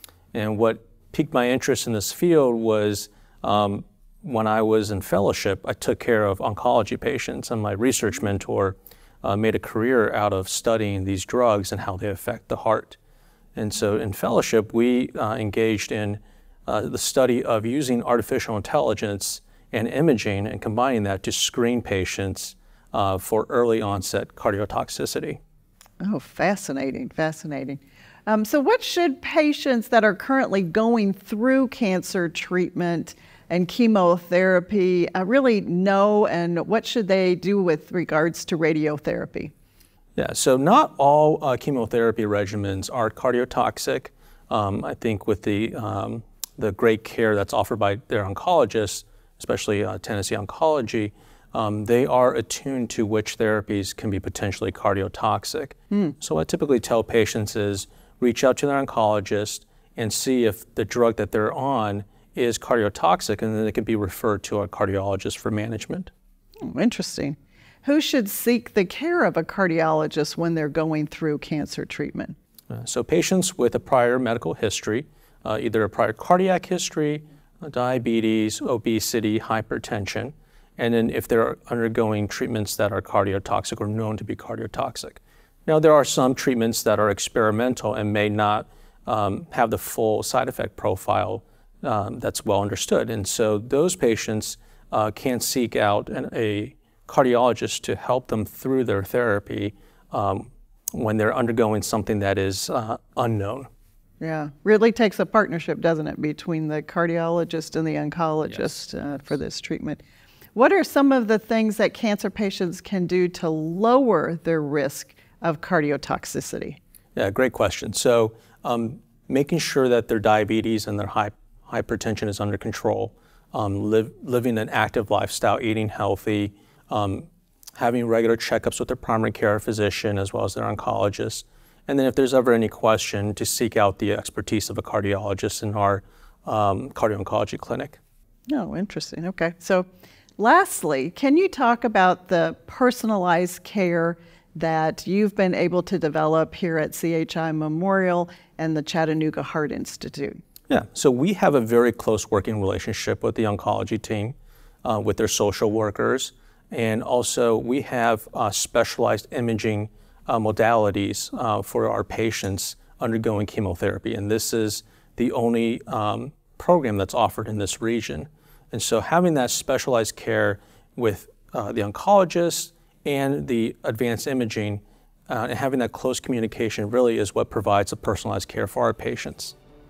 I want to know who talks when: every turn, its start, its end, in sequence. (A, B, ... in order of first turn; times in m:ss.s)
0:00.3-0:13.0 A
0:13.6-0:25.4 A
0:26.0-0:39.5 B
0:40.2-1:06.1 A
1:06.7-1:12.3 B
1:12.7-1:43.7 A
1:44.2-1:50.0 B
1:50.5-1:56.8 B
1:57.2-2:18.0 A
2:18.5-2:19.9 B
2:20.4-2:30.4 B
2:30.7-2:59.5 A